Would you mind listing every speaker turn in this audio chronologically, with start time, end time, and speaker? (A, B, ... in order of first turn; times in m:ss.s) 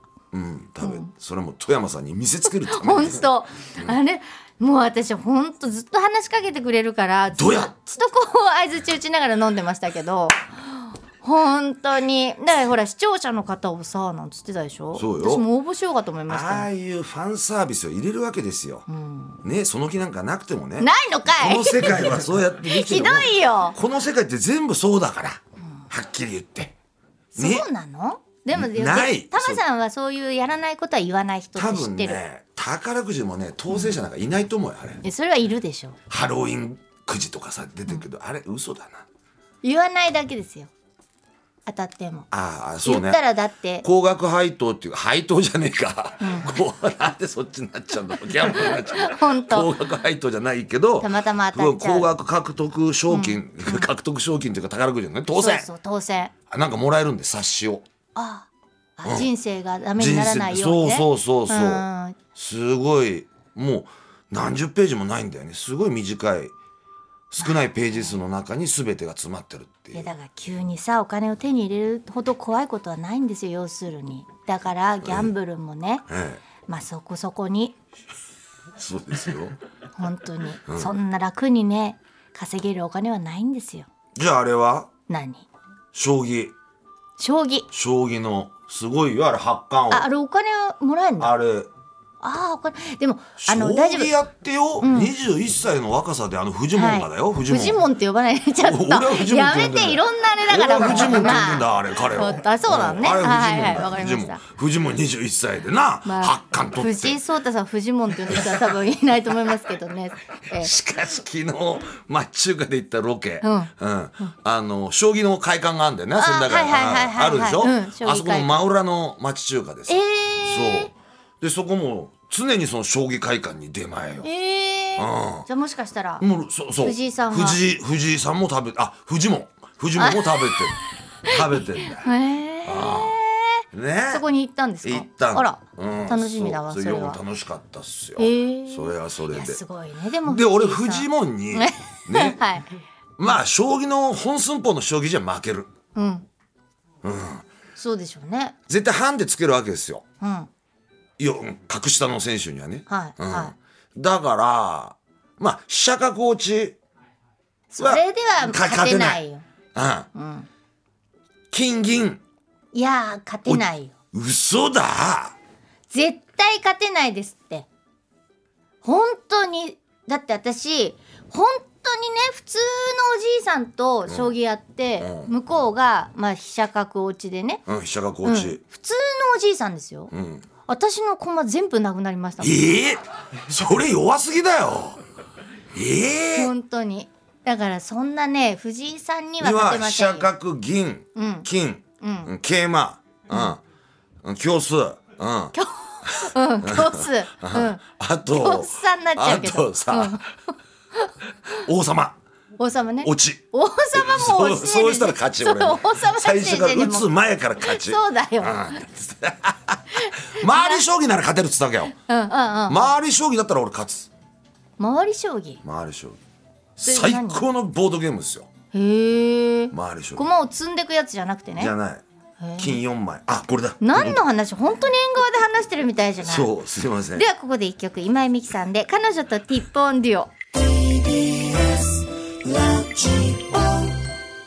0:00.3-0:03.3 A
0:00.8-0:01.1 B
0:02.5-0:16.7 B
0:07.4-0:07.7 A
0:15.0-0:15.5 A
0:16.3-0:18.9 A
0:18.9-0:19.4 B
0:19.4-0:26.8 A
0:20.8-0:23.8 B
0:25.6-0:25.9 B
0:27.4-0:27.7 A
0:27.4-0:32.2 B
0:28.5-0:29.6 A
0:31.6-0:35.0 A
0:33.7-0:34.0 B
0:35.0-0:36.0 B
0:36.1-0:39.1 A
0:39.6-0:40.7 B
0:41.7-0:42.3 B
0:42.3-0:43.2 A
0:42.8-0:43.9 B
0:43.8-0:55.7 A
0:46.2-0:46.5 B
0:48.5-0:49.7 B
0:51.0-0:52.1 B
0:53.1-0:53.9 B
0:55.3-0:56.3 B
0:56.5-0:57.8 A
0:58.2-1:02.2 B
0:59.0-0:59.3 A
1:00.0-1:06.5 A
1:07.3-1:10.1 A
1:07.4-1:08.2 B
1:09.9-1:16.1 B
1:15.0-1:15.3 A
1:16.1-1:16.4 A
1:16.7-1:17.8 B
1:18.8-1:19.6 A
1:20.0-1:23.9 B
1:20.7-1:20.9 A
1:24.2-1:24.9 A
1:25.1-1:25.5 B
1:25.9-1:26.5 A
1:27.2-1:27.7 B
1:27.7-1:30.1 A
1:29.9-1:31.4 B
1:31.2-1:31.7 A
1:32.2-1:34.1 B
1:33.4-1:37.8 A
1:34.8-1:35.1 B
1:36.8-1:44.4 B
1:38.6-1:47.2 A
1:46.1-1:50.7 B
1:48.3-1:48.6 A
1:50.5-2:04.3 A
1:53.4-1:53.7 B
1:56.2-1:58.5 B
1:59.9-2:00.9 B
2:04.2-2:06.2 B
2:05.0-2:05.5 A
2:06.2-2:12.1 A
2:06.8-2:07.6 B
2:10.0-2:10.7 B
2:11.2-2:17.2 B
2:12.6-2:13.2 A
2:13.7-2:14.2 A
2:14.8-2:19.6 A
2:18.2-2:22.8 B
2:20.2-2:22.4 A
2:23.2-2:25.7 A
2:26.0-2:26.3 B
2:27.0-2:27.4 A
2:27.8-2:28.6 B
2:28.7-2:30.0 A
2:30.2-2:30.5 B
2:31.2-2:36.8 A
2:32.9-2:33.5 B
2:37.7-2:39.4 B
2:37.8-2:39.2 A
2:39.8-2:40.1 A
2:40.1-2:40.5 B
2:41.5-2:42.2 A
2:42.7-2:43.9 B
2:43.5-2:45.4 A
2:45.9-2:47.7 B
2:48.8-2:57.6 B
2:54.1-2:54.3 A
2:55.0-2:55.3 A
2:57.7-2:58.6 A
2:58.2-3:00.1 B
3:00.1-3:00.4 A
3:00.7-3:02.6 B
3:02.4-3:05.0 A
3:05.7-3:06.5 A
3:06.3-3:10.3 B
3:09.4-3:13.6 A
3:11.2-3:11.5 B
3:12.0-3:12.3 B
3:13.3-3:13.6 B
3:14.2-3:15.6 A
3:15.5-3:20.3 B
3:16.1-3:20.3 A
3:21.6-3:22.2 A
3:22.6-3:27.1 B
3:23.0-3:31.9 A
3:27.6-3:28.8 B
3:30.0-3:30.8 B
3:32.0-3:32.9 B
3:32.7-3:34.1 A
3:34.8-3:35.6 B
3:35.6-3:36.2 A
3:36.8-3:38.5 A
3:36.8-3:37.5 B
3:38.7-3:41.7 B
3:39.7-3:40.3 A
3:41.6-3:42.0 A
3:42.4-3:42.8 B
3:42.6-3:44.2 A
3:43.8-3:46.5 B
3:46.2-3:47.3 A
3:47.2-3:50.3 B
3:51.2-3:51.5 A
3:52.4-3:53.6 A